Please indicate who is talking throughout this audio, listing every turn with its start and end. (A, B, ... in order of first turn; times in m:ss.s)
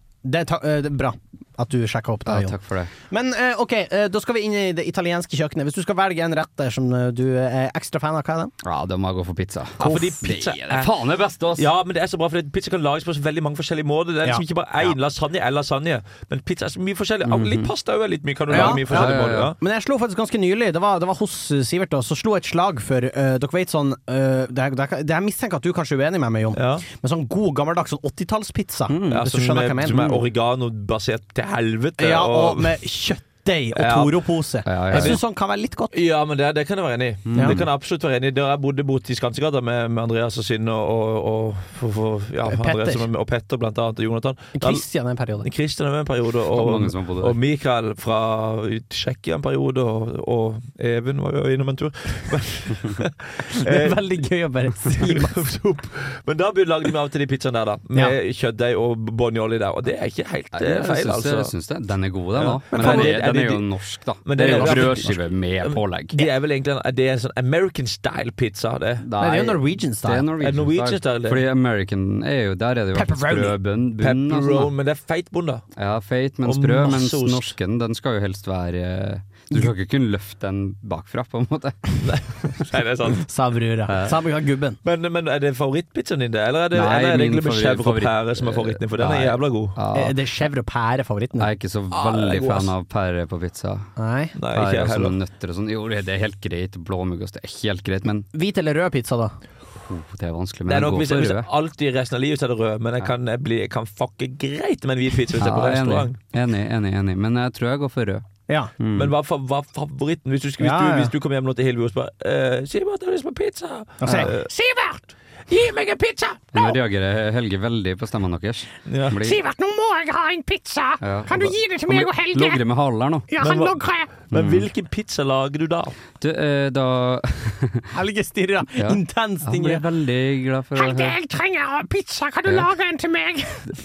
0:00.2-0:02.6 A
0:02.3-0:02.9 B
0:03.1-0:08.5 A
0:08.6-0:11.7 B
0:09.8-0:10.9 C
0:09.8-0:10.1 A
0:11.6-0:19.6 C
0:14.2-0:14.9 A
0:17.2-0:17.7 B
0:18.5-0:19.5 B
0:18.5-0:30.1 A
0:26.6-0:26.8 C
0:28.9-0:29.3 B
0:29.1-0:32.7 C
0:29.9-0:30.2 B
0:32.0-0:35.9 A
0:33.7-0:34.2 C
0:34.6-0:35.2 B
0:34.9-0:35.2 C
0:35.9-0:44.8 C
0:37.3-0:37.6 B
0:37.4-0:37.6 A
0:42.5-0:43.0 A
0:44.6-0:45.5 A
0:45.4-0:54.0 C
0:46.5-0:47.4 B
0:53.5-0:55.4 A
0:55.0-1:01.5 C
1:00.5-1:06.2 B
1:02.4-1:03.6 C
1:02.7-1:03.2 A
1:04.2-1:09.1 C
1:04.4-1:04.9 A
1:09.0-1:14.7 B
1:09.2-1:10.3 A
1:10.4-1:11.4 C
1:12.9-1:13.6 A
1:14.0-1:15.6 C
1:15.8-1:22.0 B
1:16.4-1:17.5 C
1:22.0-1:23.3 C
1:23.2-1:24.8 A
1:23.9-1:24.2 B
1:24.8-1:29.8 C
1:26.7-1:30.2 B
1:29.9-1:31.5 A
1:31.4-1:33.9 B
1:31.9-1:32.7 C
1:34.0-1:34.3 A
1:34.4-1:35.2 C
1:34.5-1:38.3 B
1:38.3-1:39.3 A
1:39.8-1:41.5 B
1:40.7-1:46.2 C
1:45.4-1:48.3 B
1:48.8-1:49.1 B
1:48.9-1:54.5 C
1:50.6-1:51.1 A
1:54.0-1:55.0 A
1:55.5-1:56.4 C
1:56.5-1:59.4 B
1:58.9-1:59.2 C
1:59.2-2:02.6 A
2:01.0-2:03.3 B
2:03.3-2:04.1 A
2:03.4-2:06.0 C
2:04.3-2:04.7 B
2:06.2-2:07.9 B
2:07.9-2:09.8 A
2:08.8-2:11.2 B
2:10.8-2:13.6 A